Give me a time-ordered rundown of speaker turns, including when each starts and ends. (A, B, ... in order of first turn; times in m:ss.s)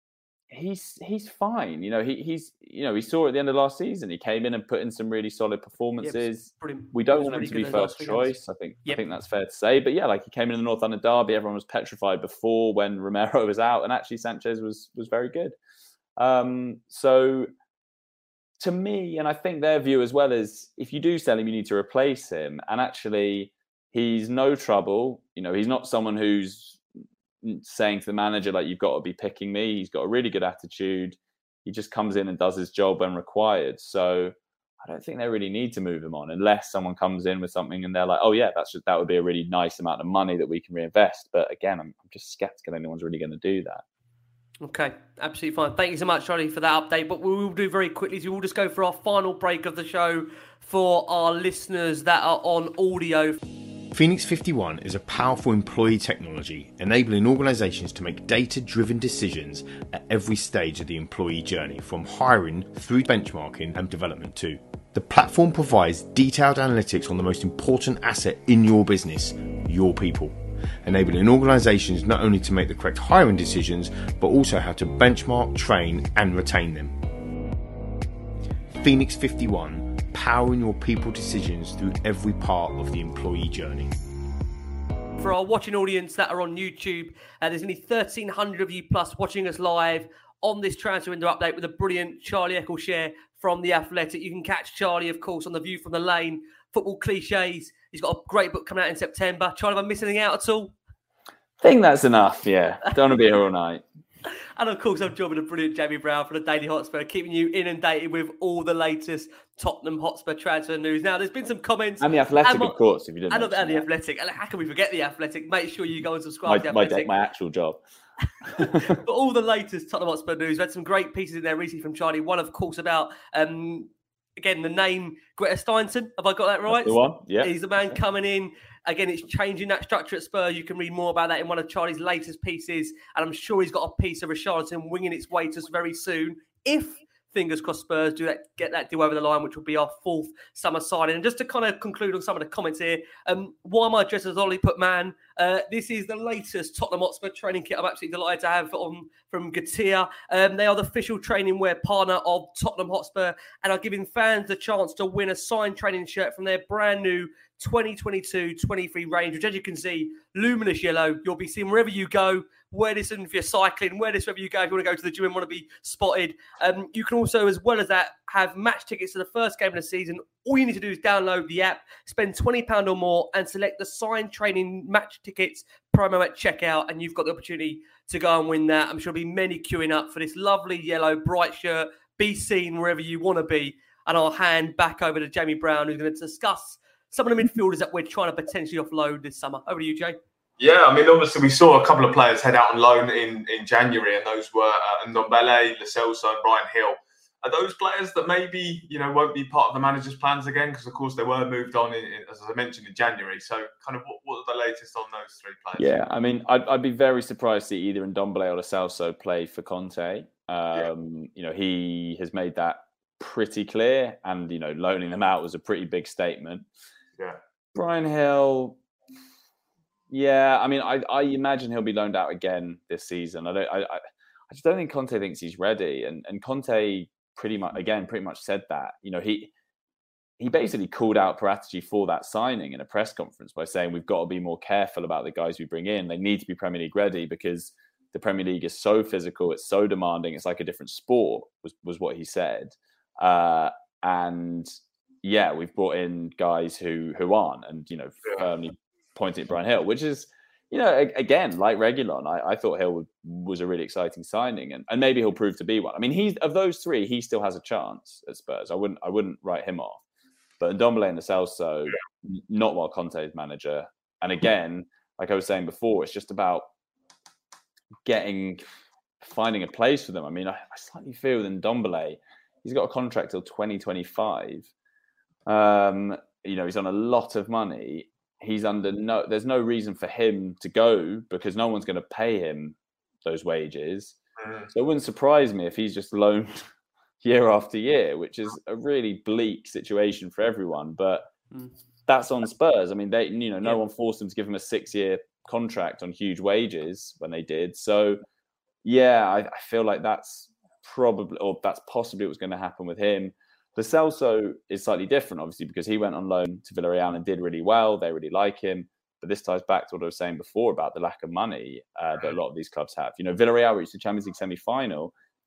0:00.5-0:15.6 A
0:06.0-0:09.0 B
0:16.2-0:17.5 A
0:18.6-0:26.8 A
0:27.4-0:43.8 A
0:44.6-0:53.4 B
0:53.9-1:17.0 C
1:18.8-1:24.0 C
1:25.2-1:40.7 B
1:41.6-1:43.8 A
1:44.6-1:52.8 B
1:52.0-1:53.9 A
1:53.3-1:57.1 B
1:56.5-1:57.8 A
1:58.4-1:59.0 A
1:58.6-3:10.2 B
2:06.7-2:07.5 A
3:10.6-3:26.0 D
3:25.8-3:36.7 A
3:37.8-3:38.8 A
3:40.1-3:49.5 A
3:50.4-4:04.7 A
4:05.2-4:20.0 A
4:20.6-4:26.7 A
4:28.1-4:28.6 A
4:29.2-4:34.7 A
4:35.5-4:44.2 A
4:44.4-4:44.7 D
4:44.7-4:46.7 A
4:47.2-4:51.3 A
4:52.1-4:58.2 A
4:58.8-5:15.1 A